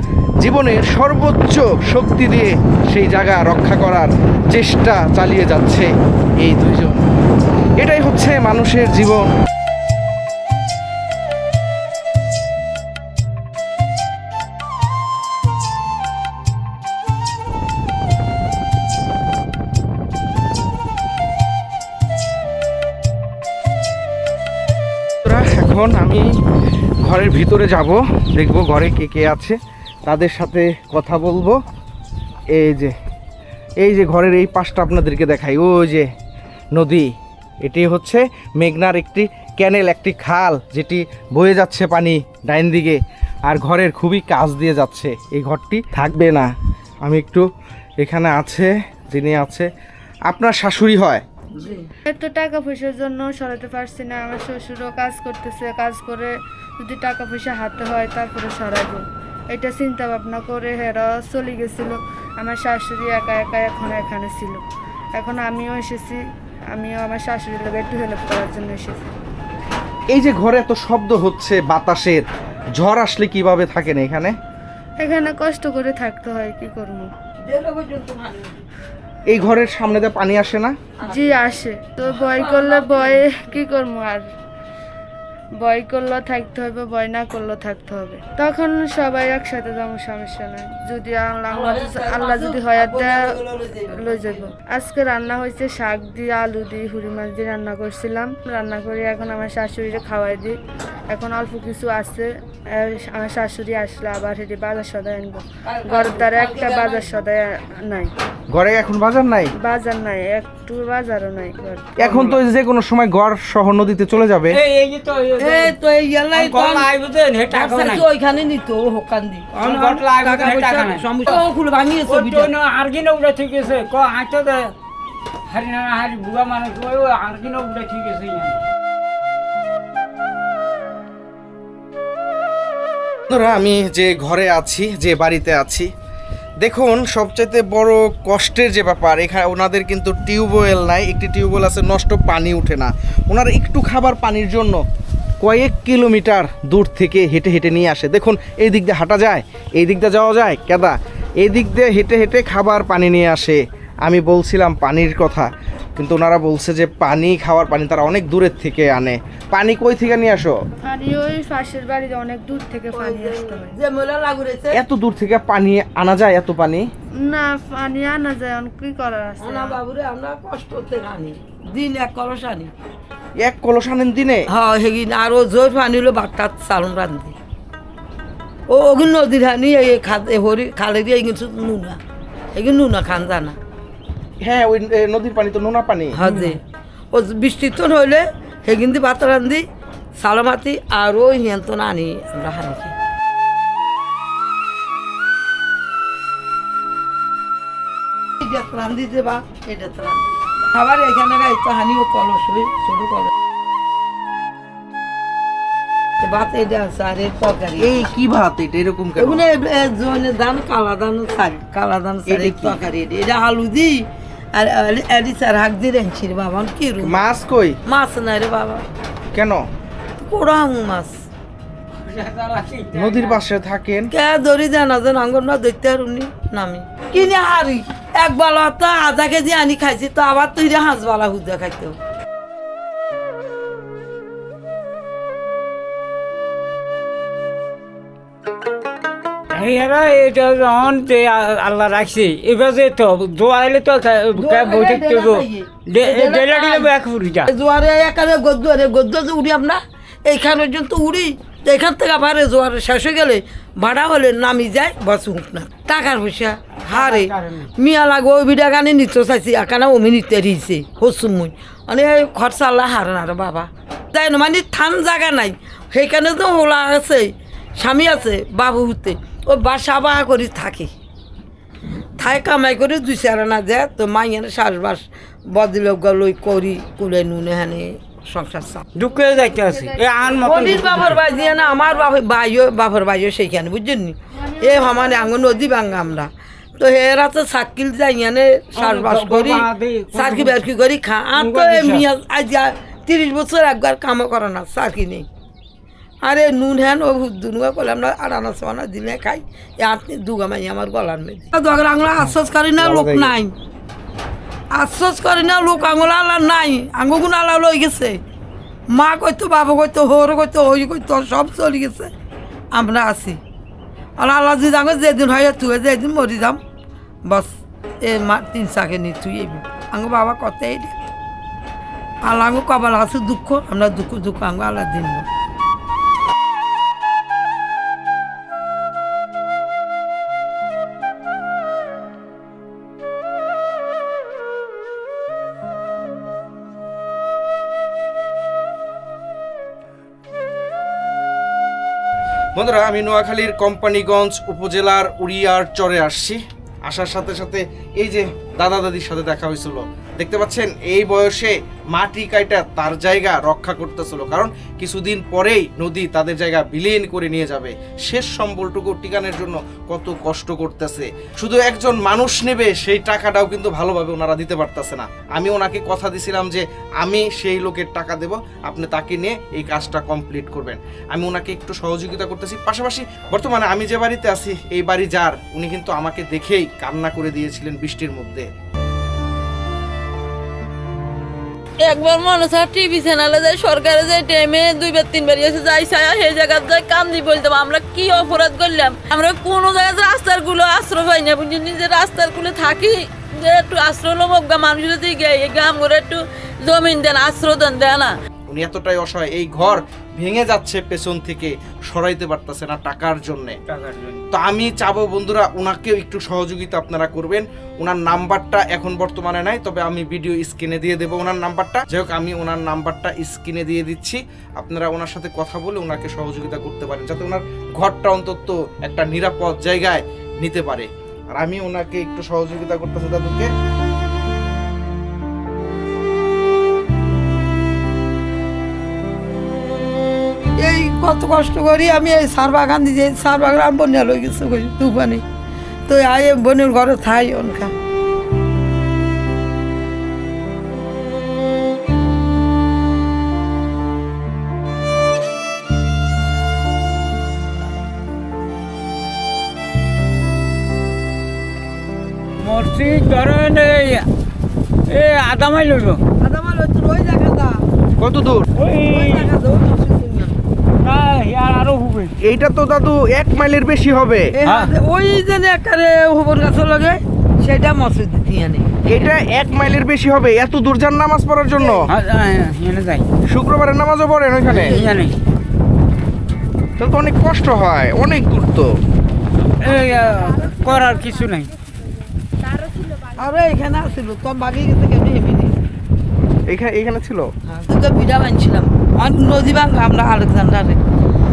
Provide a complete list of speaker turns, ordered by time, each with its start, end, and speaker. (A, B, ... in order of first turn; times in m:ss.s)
0:00.4-0:07.1 A
0:07.8-0:09.3 A
0:25.2-0:26.4 A
0:27.0-0:31.6 A
0:32.5-0:32.9 A
0:33.8-0:36.1 A
0:36.7-0:47.4 A
0:48.0-0:49.7 A
0:50.3-0:51.2 A
0:51.5-0:51.9 B
0:52.0-1:04.6 C
1:05.1-1:09.1 C
1:10.1-1:12.2 A
1:12.7-1:14.3 A
1:15.0-1:17.1 C
1:17.4-1:18.6 B
1:19.3-1:20.7 A
1:21.0-1:21.5 B
1:21.0-1:24.3 C
1:22.0-1:23.4 B
1:25.6-1:33.4 C
1:31.5-1:34.5 B
1:33.9-1:40.6 C
1:41.1-1:48.1 C
1:45.6-1:47.1 B
1:48.5-1:49.5 A
1:49.6-1:51.9 C
1:52.0-1:54.6 A
1:52.0-1:52.3 D
1:54.5-1:55.8 D
1:55.4-1:56.9 B
1:56.3-1:58.0 D
1:57.5-2:02.5 B
1:59.6-2:01.4 D
2:02.1-2:04.7 D
2:05.5-2:08.6 D
2:13.3-2:15.9 A
2:16.6-2:24.8 A
2:25.4-2:40.6 A
2:40.8-2:43.7 C
2:42.9-2:44.8 B
2:44.7-2:46.9 A
2:47.2-2:49.8 C
2:49.4-2:52.7 B
2:53.4-2:54.5 A
2:54.5-2:57.3 B
2:58.7-3:02.0 B
3:02.5-3:03.6 B
3:04.4-3:06.2 A
3:06.2-3:06.6 B
3:06.2-3:06.6 D
3:07.1-3:09.6 B
3:10.2-3:12.9 B
3:18.4-3:23.3 B
3:26.2-3:28.0 B
3:27.8-3:29.4 A
3:29.2-3:37.2 B
3:32.3-3:32.8 A
3:37.0-3:37.8 A
3:37.8-3:38.8 B
3:39.3-3:39.6 A
3:40.2-3:41.2 B
3:42.0-3:43.5 D
3:42.9-3:44.1 A
3:44.1-3:52.0 B
3:59.5-4:07.5 D
4:04.4-4:06.9 B
4:07.5-4:30.9 B
4:16.9-4:17.7 D
4:32.2-4:38.8 B
4:38.9-4:41.2 D
4:39.1-4:42.1 C
4:40.4-4:55.3 B
4:44.3-4:46.1 C
4:48.8-4:50.6 D
4:51.4-4:52.0 D
4:56.2-5:03.5 B
5:02.8-5:03.4 A
5:04.7-5:08.2 B
5:08.9-5:12.1 B
5:12.7-5:13.4 B
5:14.2-5:16.6 B
5:17.3-5:21.0 B
5:22.2-5:25.2 B
5:42.5-6:18.5 A
6:21.8-6:38.1 E
6:38.5-6:43.6 A
6:43.7-6:44.2 D
6:44.3-7:03.5 A
7:10.6-7:15.2 B
7:15.9-7:17.7 B
7:32.4-7:34.1 D
7:34.9-7:36.0 D
7:36.2-7:37.6 B
7:38.0-7:38.5 A
7:38.6-7:39.3 D
7:38.8-7:40.4 B
7:40.8-7:42.1 D
7:42.2-7:44.3 A
7:44.3-7:49.0 B
7:44.4-7:44.7 D
7:48.8-7:51.9 A
7:51.6-7:51.8 B
7:51.9-7:53.1 D
7:53.3-7:54.8 A
7:54.5-7:55.2 D
7:54.5-7:55.0 B
7:56.8-7:58.7 A
7:59.6-8:01.5 D
8:02.4-8:03.1 C
8:03.1-8:05.7 B
8:06.5-8:07.3 A
8:07.4-8:10.8 B